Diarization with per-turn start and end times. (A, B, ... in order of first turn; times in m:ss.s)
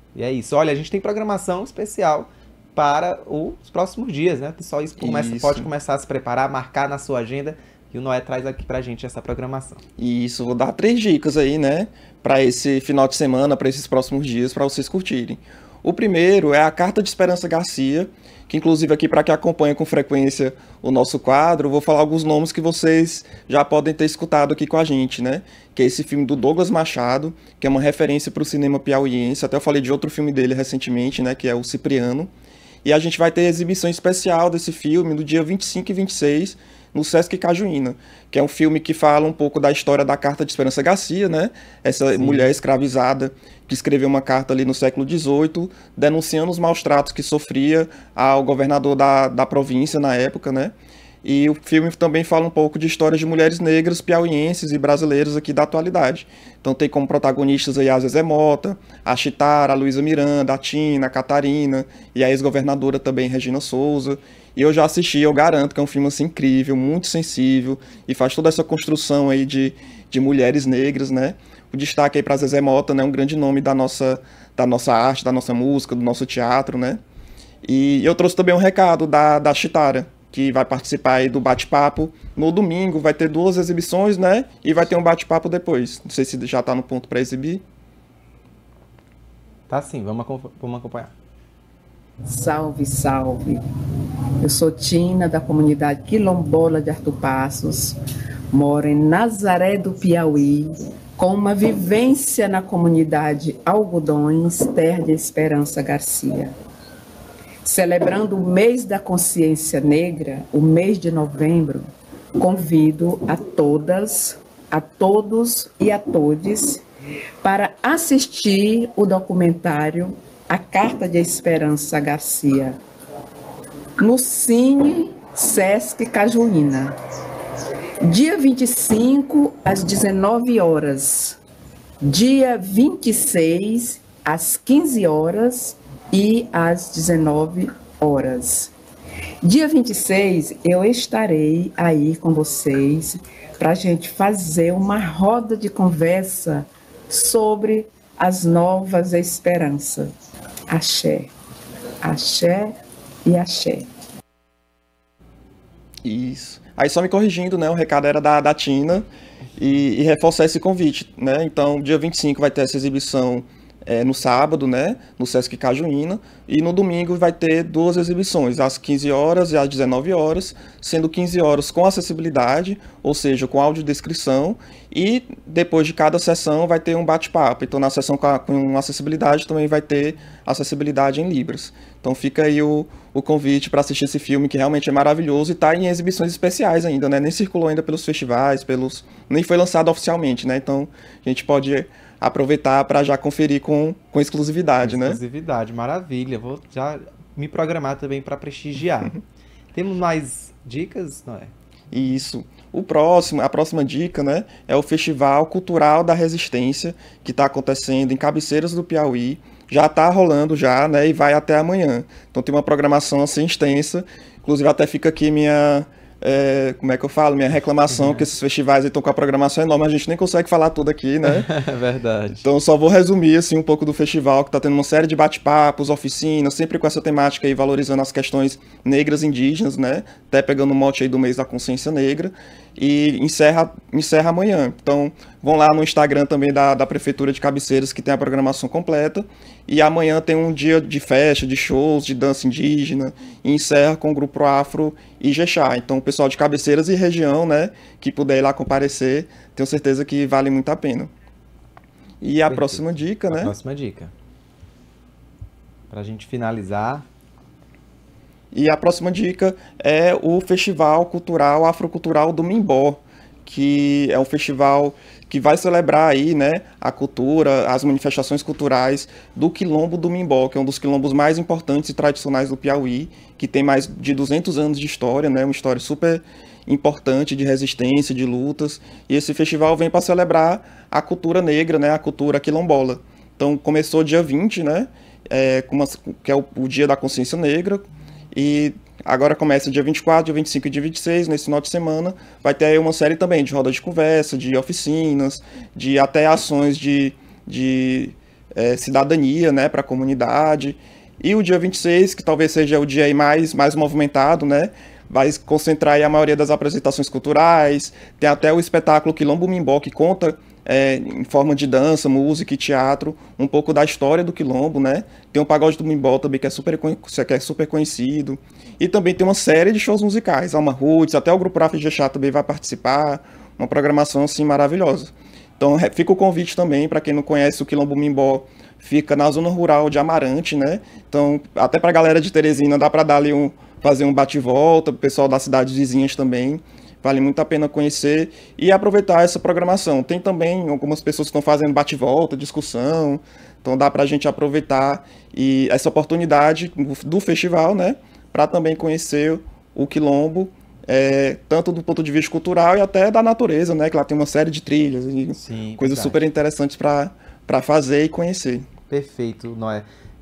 0:00.1-0:09.8 A
0:05.0-0:05.7 B
0:10.0-0:32.3 B
0:32.8-1:17.0 B
0:42.2-0:42.6 A
1:17.6-1:27.6 B
1:29.7-1:31.1 A
1:32.2-1:33.6 C
1:34.4-1:38.0 C
1:38.5-1:46.5 C
1:47.6-1:51.9 C
1:52.4-1:56.8 C
1:57.4-2:02.8 C
2:04.0-2:06.9 C
2:08.0-2:11.4 C
2:12.0-2:18.7 C
2:19.4-2:30.1 C
2:30.7-2:31.3 C
2:32.0-2:32.7 C
2:33.2-2:33.8 C
2:36.0-3:15.2 B
3:14.8-3:19.2 A
3:19.7-3:21.5 A
3:21.9-3:41.5 B
3:41.2-3:42.4 A
3:42.4-4:11.1 B
4:12.2-4:13.5 B
4:12.5-4:14.1 A
4:15.9-4:17.0 A
4:18.5-5:58.7 B
5:55.4-5:56.2 A
5:58.9-5:59.8 A